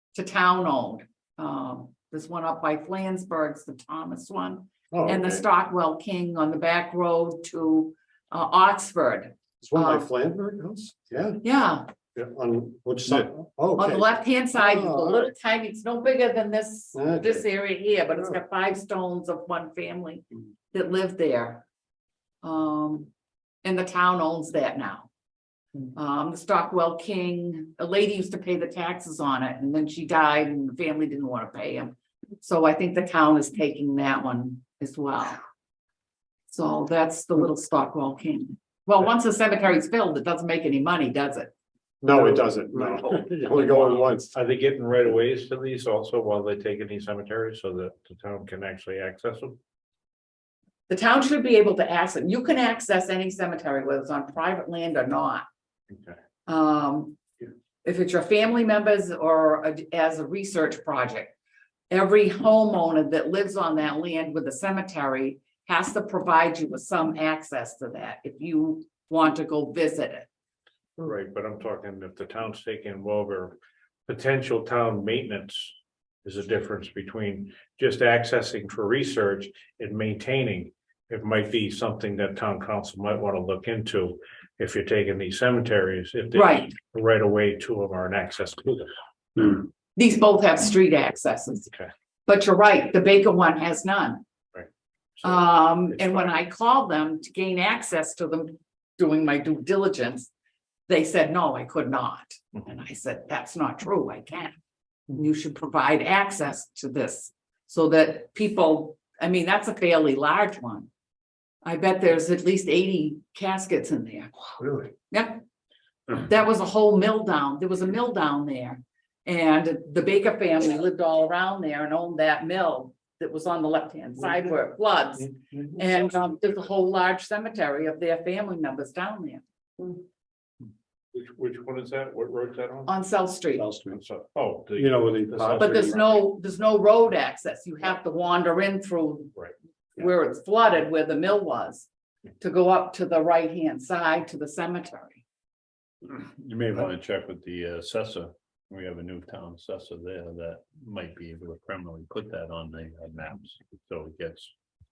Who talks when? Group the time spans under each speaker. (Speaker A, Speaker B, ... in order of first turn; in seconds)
Speaker A: 0.1-10.1, 11.4-11.9, 13.8-21.7, 22.4-23.1, 23.6-25.1, 25.9-35.4, 36.5-41.5, 50.9-55.5, 56.5-57.2, 57.8-61.4, 61.9-70.3, 86.3-86.7, 90.0-91.7, 92.3-94.2, 95.2-100.3, 100.9-104.6, 105.1-110.9, 111.6-114.3, 115.1-115.4, 116.1-129.4, 132.9-133.7, 135.6-139.3, 139.9-141.9, 142.4-145.2
Speaker B: 4.9-5.5, 9.6-11.4, 12.1-15.3, 16.9-17.5, 42.0-44.3, 133.6-134.0, 134.8-136.0
Speaker C: 42.8-49.6, 55.9-56.2, 71.0-89.4, 95.2-96.4, 131.1-132.9, 133.9-136.2
Speaker D: 146.0-154.5